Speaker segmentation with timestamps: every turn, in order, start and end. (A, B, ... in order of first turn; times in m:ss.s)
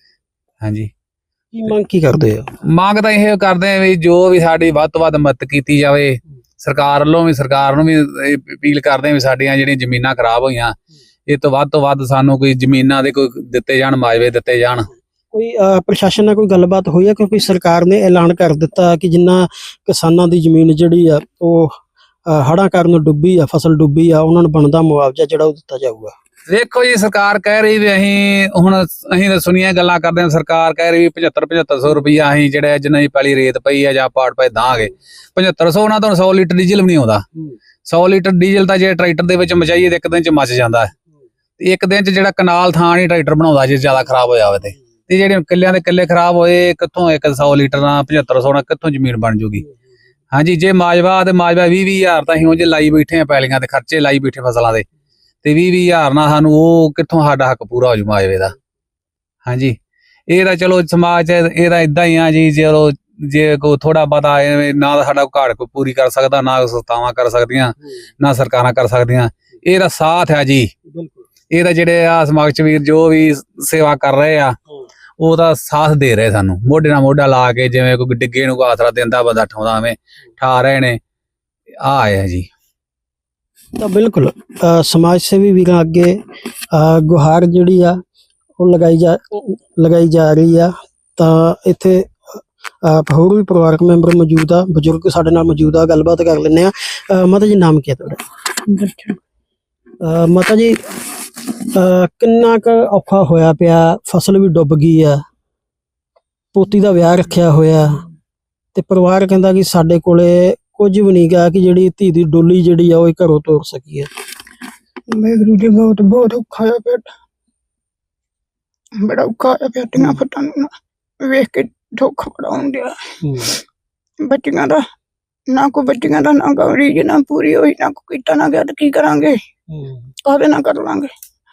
0:00.6-0:00.9 A
0:01.5-0:02.5 B
0:02.7-0:10.8 A
0:11.3-0:14.9 A
0:15.3-0:21.7 B
0:22.3-0:26.1 B
0:26.5-0:37.2 A
0:37.8-0:40.9 A
0:41.6-0:49.7 A
0:50.3-0:54.8 A
0:55.4-0:58.6 A
0:59.5-0:59.8 A
1:00.3-1:10.7 A
1:10.9-1:11.2 B
1:11.5-1:14.6 A
1:15.2-1:21.0 A
1:21.8-1:22.5 A
1:23.8-1:26.2 B
1:26.7-1:28.0 B
1:28.6-1:38.2 B
1:38.6-1:39.2 C
1:40.0-1:40.8 B
1:41.5-1:45.2 B
1:46.5-1:48.0 B
1:48.7-1:54.1 B
1:55.1-1:57.1 C
1:59.0-2:03.6 C
2:03.2-2:03.5 B
2:04.2-2:04.8 C
2:05.5-2:09.4 C
2:09.7-2:10.1 B
2:10.2-2:11.1 C